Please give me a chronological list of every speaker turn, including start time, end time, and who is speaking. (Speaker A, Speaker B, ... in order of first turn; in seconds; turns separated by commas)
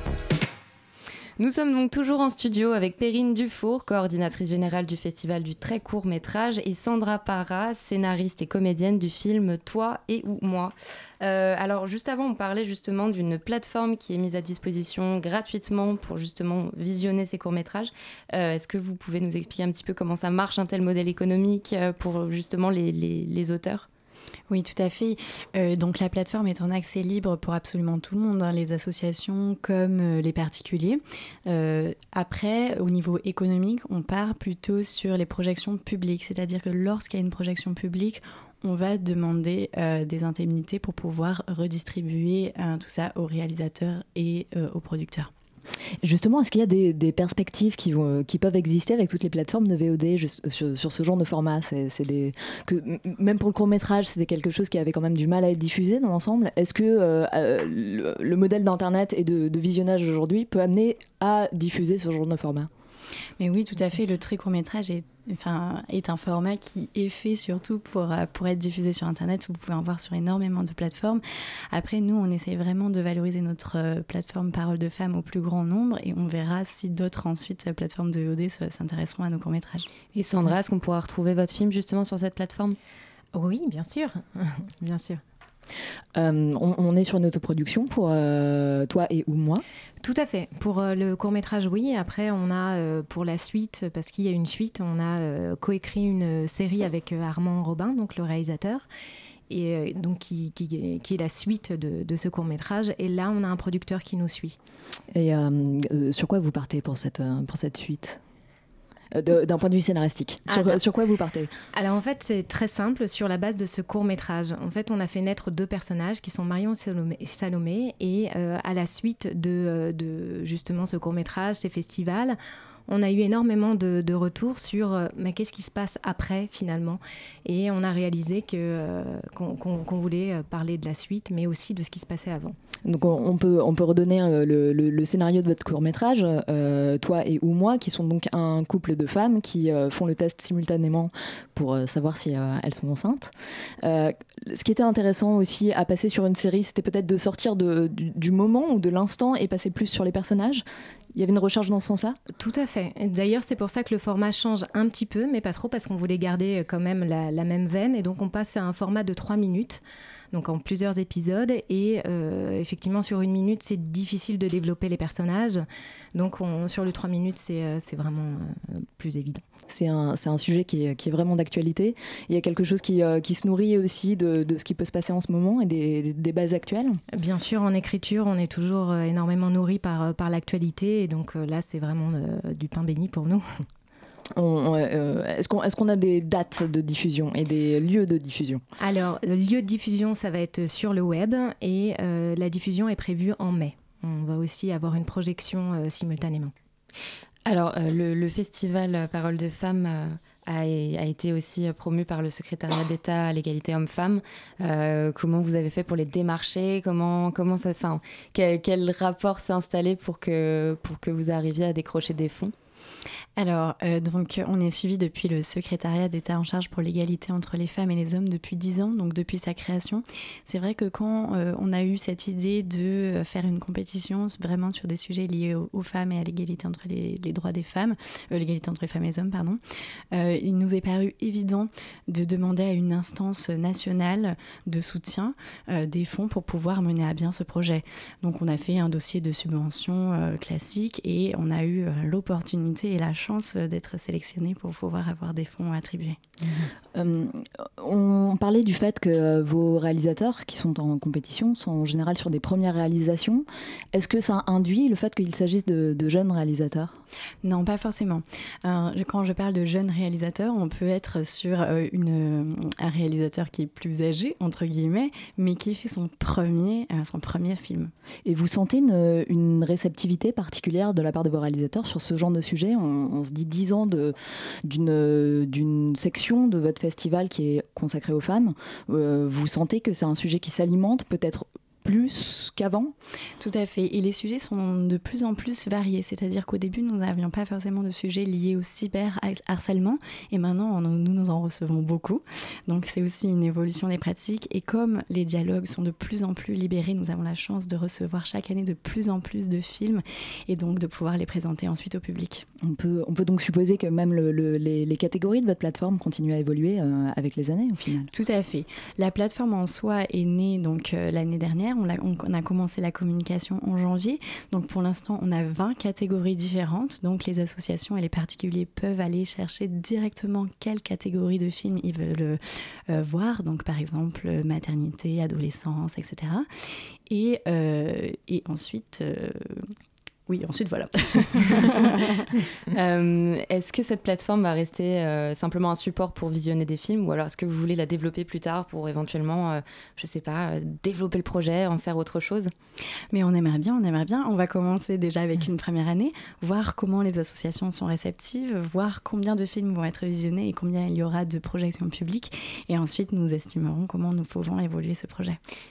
Speaker A: 1.4-23.9, Speaker B: 24.5-45.3, Speaker C: 46.0-62.7, Speaker B: 63.4-79.8, Speaker A: 80.2-82.8, Speaker D: 83.3-85.2, Speaker C: 86.2-89.6, Speaker D: 90.0-98.9, Speaker D: 99.5-104.6, Speaker C: 105.1-108.2, Speaker C: 109.1-111.5, Speaker D: 110.5-110.8, Speaker D: 111.7-132.6, Speaker C: 132.8-143.3, Speaker C: 143.8-150.6, Speaker C: 151.2-152.2, Speaker D: 152.4-169.4, Speaker C: 169.7-177.0, Speaker D: 177.1-183.7, Speaker C: 184.4-188.6, Speaker D: 188.8-196.5, Speaker A: 197.5-212.5, Speaker B: 213.4-229.6, Speaker B: 230.1-246.2, Speaker D: 246.4-246.7, Speaker C: 246.9-257.0, Speaker B: 257.4-267.9, Speaker C: 268.3-282.9, Speaker B: 283.4-302.4, Speaker C: 302.6-308.1, Speaker B: 308.1-326.5, Speaker B: 327.1-329.6, Speaker B: 330.3-332.3, Speaker A: 332.7-342.5, Speaker B: 343.1-355.4